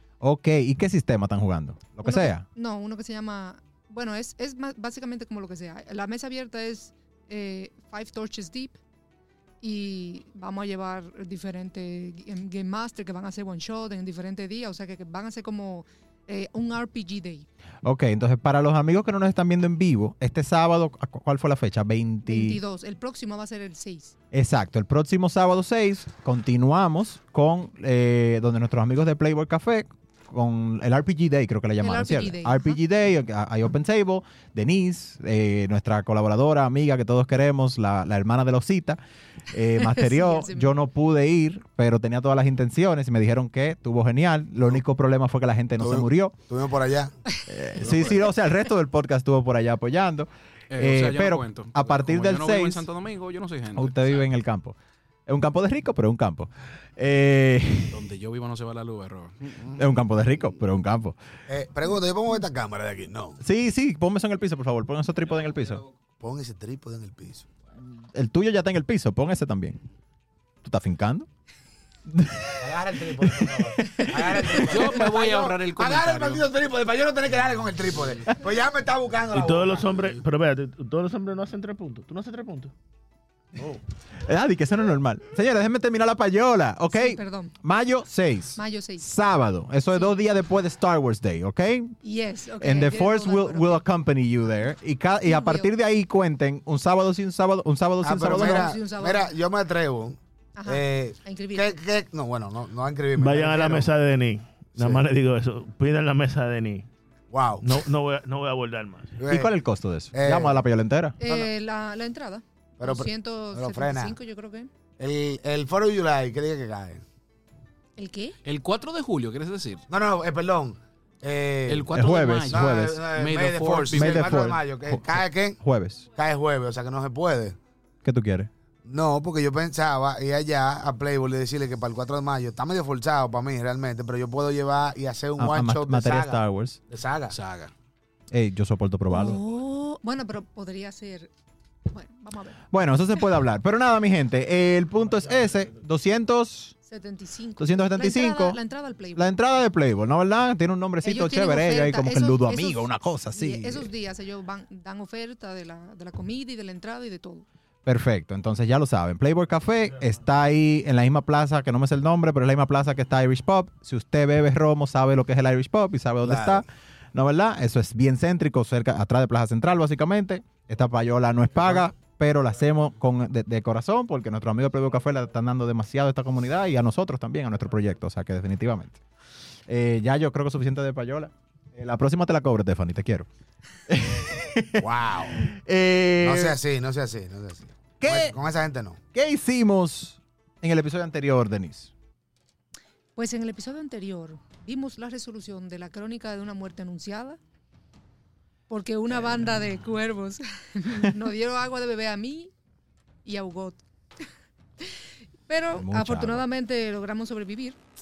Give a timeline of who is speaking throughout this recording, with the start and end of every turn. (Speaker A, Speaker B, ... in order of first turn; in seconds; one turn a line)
Speaker A: 0.2-2.4
Speaker B: 2.0-8.8
Speaker B: 9.6-17.5
Speaker A: 17.8-22.6
Speaker B: 22.2-24.1
Speaker A: 24.3-39.0
Speaker B: 31.8-32.8
Speaker A: 39.5-46.3
Speaker B: 39.8-40.7
Speaker C: 45.8-47.2
Speaker A: 47.5-52.9
Speaker C: 47.8-48.1
Speaker D: 50.7-54.3
Speaker A: 53.7-58.0
Speaker D: 57.9-59.9
Speaker A: 59.8-61.1
Speaker C: 61.5-63.4
Speaker A: 63.4-65.8
Speaker C: 66.2-67.5
Speaker A: 67.8-69.8
Speaker A: 70.6-71.3
Speaker A: 72.1-74.7
Speaker C: 72.6-80.0
Speaker D: 74.5-76.5
Speaker E: 79.3-82.7
Speaker A: 84.2-92.0
Speaker B: 86.9-87.5
Speaker B: 88.5-89.1
Speaker B: 92.0-93.8
Speaker A: 92.6-98.8
Speaker B: 95.2-95.7
Speaker C: 98.0-103.9
Speaker B: 98.2-99.3
Speaker B: 100.5-101.8
Speaker E: 103.2-106.8
Speaker C: 107.3-107.8
Speaker E: 107.6-109.2
Speaker C: 109.2-109.5
Speaker A: 109.2-111.2
Speaker C: 110.1-110.6
Speaker B: 111.2-114.7
Speaker C: 111.2-111.5
Speaker C: 112.8-114.2
Speaker C: 115.0-117.0
Speaker B: 118.0-118.4
Speaker D: 118.4-119.8
Speaker C: 119.9-125.6
Speaker D: 121.7-124.5
Speaker A: 121.9-123.0
Speaker A: 123.9-126.0
Speaker C: 126.1-127.6
Speaker A: 128.0-128.5
Speaker C: 128.8-137.4
Speaker A: 135.4-136.8
Speaker D: 137.3-137.7
Speaker A: 138.3-139.4
Speaker B: 139.1-141.3
Speaker B: 141.9-142.7
Speaker A: 142.7-146.7
Speaker E: 145.1-145.8
Speaker B: 146.8-149.4
Speaker A: 147.6-148.6
Speaker A: 149.2-153.9
Speaker B: 151.0-157.4
Speaker A: 157.8-179.0
Speaker C: 166.2-166.6
Speaker A: 179.7-183.3
Speaker A: 183.9-186.6
Speaker C: 184.8-185.5
Speaker C: 186.2-189.0
Speaker A: 188.0-188.3
Speaker A: 189.1-191.9
Speaker B: 193.2-197.4
Speaker B: 198.7-202.5
Speaker B: 203.2-203.8
Speaker B: 204.8-207.8
Speaker A: 205.7-206.4